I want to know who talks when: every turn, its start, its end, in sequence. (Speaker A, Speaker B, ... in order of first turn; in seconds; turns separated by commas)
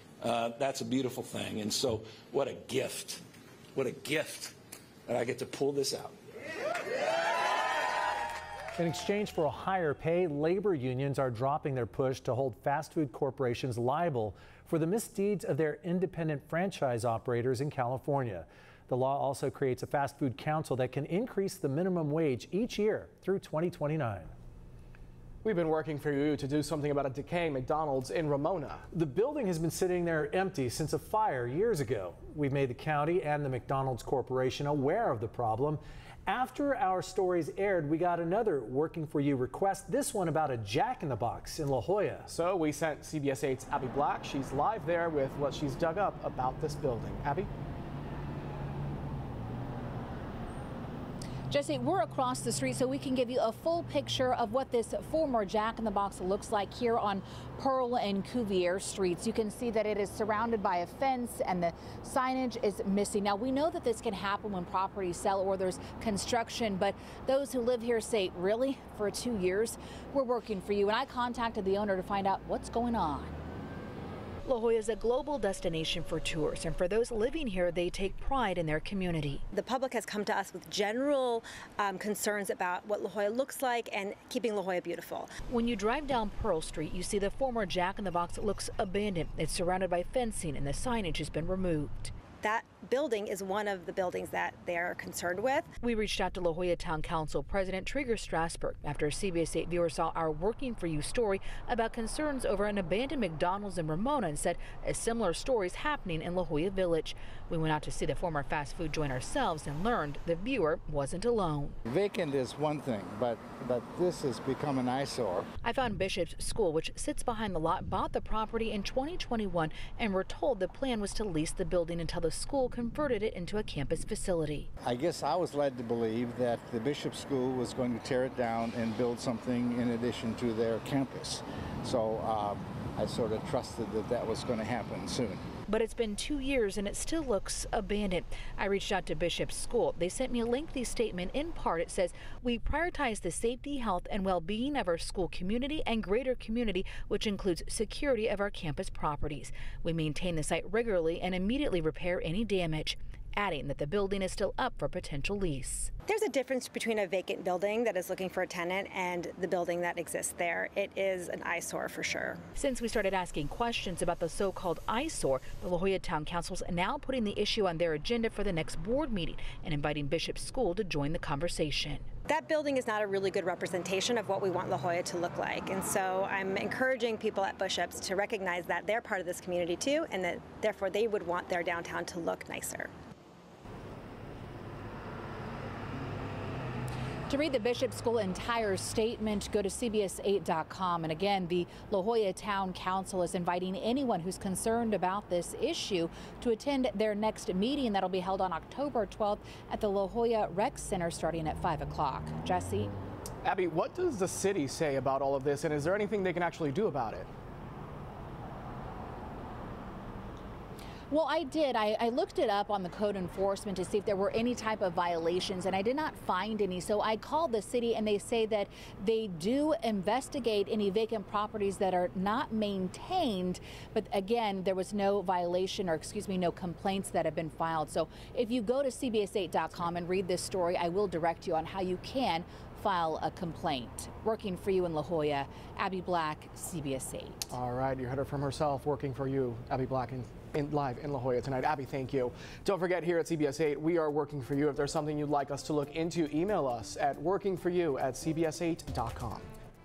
Speaker A: 0.2-3.2, Speaker A: 3.8-4.5, Speaker A: 5.1-6.1, Speaker B: 8.8-24.3, Speaker C: 25.4-28.8, Speaker B: 28.9-42.3, Speaker C: 42.3-47.5, Speaker D: 51.5-73.3, Speaker D: 74.4-79.4, Speaker E: 79.5-85.3, Speaker D: 85.5-92.1, Speaker E: 92.4-95.7, Speaker D: 95.8-111.8, Speaker F: 111.8-115.5, Speaker D: 115.6-124.7, Speaker F: 124.8-135.5, Speaker D: 135.7-155.9, Speaker E: 156.1-162.4, Speaker D: 162.5-172.0, Speaker E: 172.3-182.9, Speaker D: 187.3-202.9, Speaker C: 203.4-207.3, Speaker D: 211.1-237.4, Speaker C: 237.5-249.5